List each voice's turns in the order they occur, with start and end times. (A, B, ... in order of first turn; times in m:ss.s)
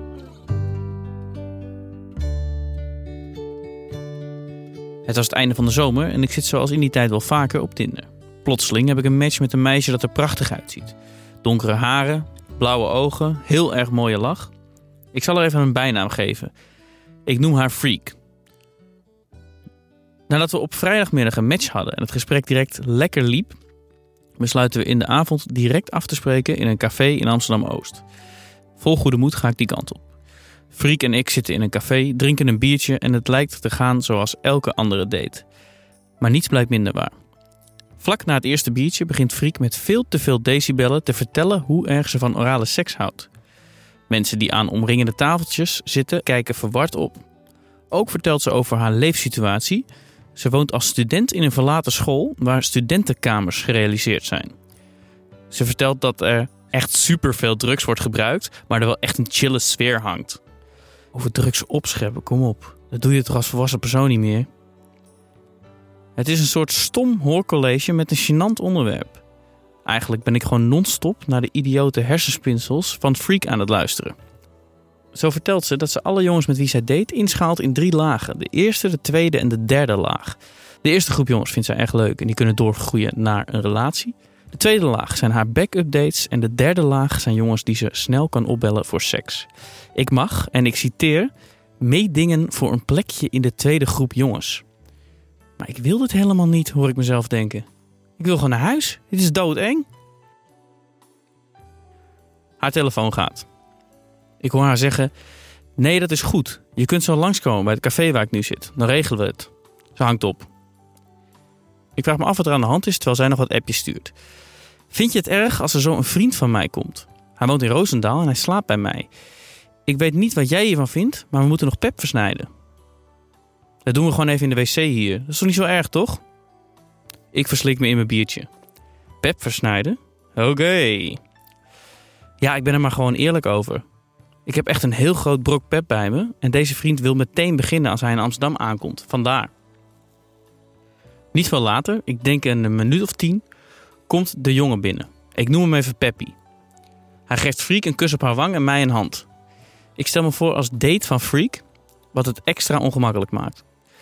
0:05.1-0:14.5 A
0:15.1-0:16.5 A
0:17.3-0:18.2 A
0:20.3-0:23.6 A
0:24.4-0:28.0 A
0:28.8-0:30.0 A
0:30.7-0:35.4 A
0:36.2-0:37.2 A
0:38.0-0:43.3 A
0:44.1-0:47.2 A
0:47.9-0:49.8 A
0:50.4-0:54.5 A
0:55.5-1:00.4 A
1:01.1-1:04.5 A
1:06.2-1:09.2 A
1:09.9-1:14.2 A
1:15.1-1:34.6 A
1:35.6-1:37.7 A
1:38.2-1:39.9 A
1:42.6-1:43.5 A
1:44.4-1:45.1 A
1:45.8-1:50.5 A
1:52.0-1:54.1 A
1:54.9-1:59.1 A
1:59.9-2:02.5 A
2:03.8-2:06.2 A
2:07.3-2:08.5 A
2:09.2-2:11.2 A
2:12.4-2:13.8 A
2:14.5-2:19.5 A
2:21.3-2:23.4 A
2:24.1-2:26.3 A
2:27.3-2:29.3 A
2:30.0-2:31.6 A
2:32.1-2:33.6 A